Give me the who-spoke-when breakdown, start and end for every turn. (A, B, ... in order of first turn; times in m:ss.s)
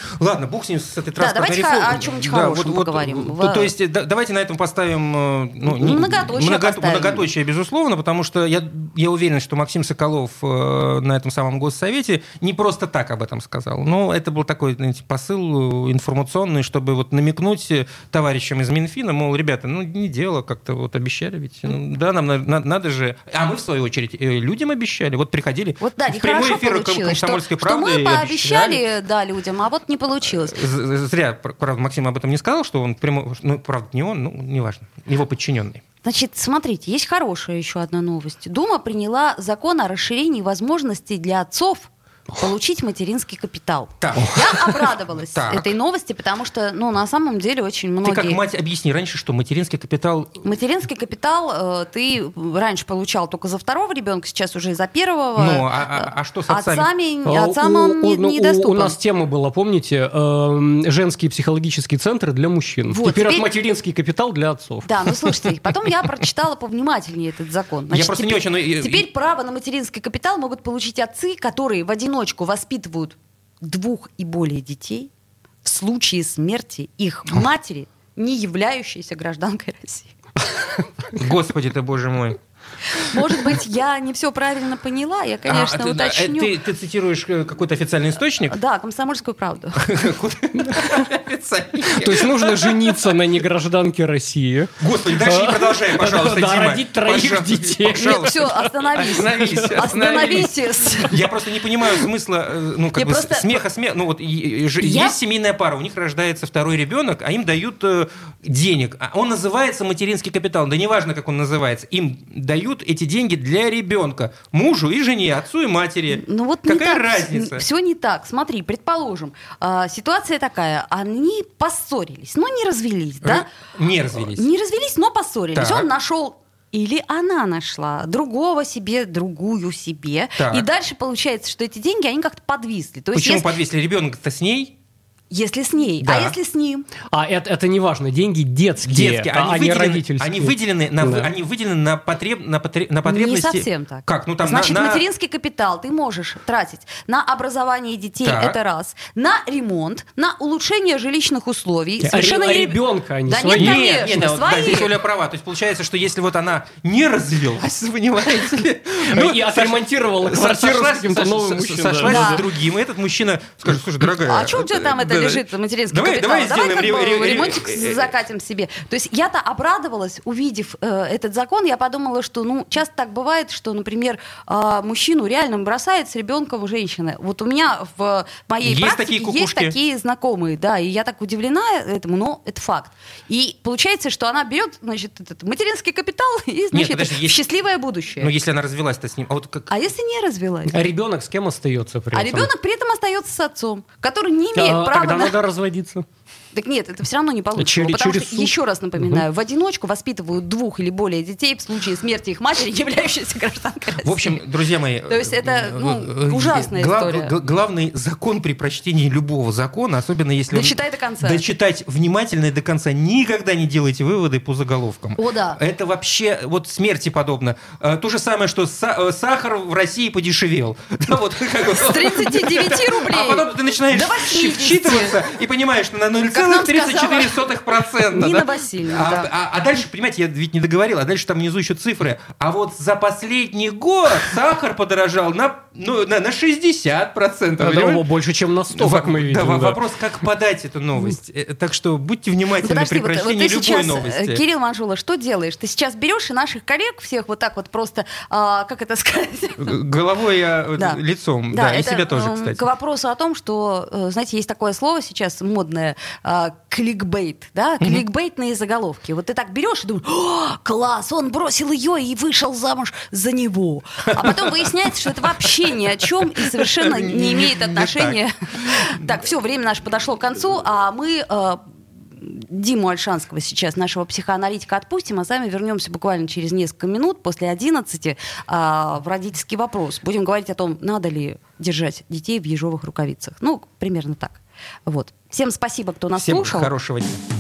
0:00.2-0:28.9 A
0:01.2-0:03.7 B
0:05.7-0:07.3 B
0:25.8-0:30.6 B
0:30.4-0:35.8 A
0:36.0-0:48.4 B
0:44.0-0:45.7 A
0:48.0-0:50.4 A
0:50.4-0:59.0 B
0:55.4-0:56.9 A
0:57.2-1:04.9 C
1:02.9-1:03.5 B
1:04.8-1:15.1 B
1:07.9-1:09.1 A
1:15.6-1:20.1 B
1:21.1-1:22.4 A
1:22.9-1:26.5 B
1:25.5-1:28.6 A
1:28.5-1:29.9 B
1:29.8-1:33.2 A
1:31.9-1:40.5 C
1:34.8-1:57.6 A
1:38.0-1:41.2 B
1:43.0-1:43.6 B
1:44.8-1:45.2 B
1:56.1-2:03.5 B
2:03.2-2:04.4 A
2:04.3-2:13.5 B
2:05.5-2:05.9 A
2:10.4-2:10.7 A
2:13.1-2:14.8 A
2:15.3-2:16.9 B
2:16.0-2:16.4 A
2:17.1-2:21.3 C
2:18.8-2:25.0 A
2:23.0-2:34.9 B
2:28.2-2:28.6 A
2:32.0-2:34.1 C
2:33.6-2:48.1 A
2:39.0-2:42.4 C
2:42.1-2:42.4 B
2:44.2-3:08.3 B
2:58.6-2:59.8 A
3:06.7-3:07.4 A
3:08.2-3:09.7 A
3:09.7-3:10.8 B
3:10.7-3:12.5 C
3:12.1-3:15.4 B
3:14.6-3:16.0 C
3:16.5-3:24.4 B
3:17.6-3:19.2 C
3:24.0-3:58.0 A
3:25.1-3:27.3 B
3:30.5-3:31.4 B
3:35.2-3:35.6 B
3:41.8-3:45.2 B
3:46.3-3:47.5 B
3:48.0-3:49.3 B
3:57.6-3:59.8 C
3:58.7-4:04.4 A
4:02.6-4:09.8 B
4:09.6-4:12.6 A
4:10.8-4:31.6 B
4:24.1-4:24.7 A
4:26.4-4:29.0 A
4:32.2-4:46.7 B
4:46.1-4:47.2 A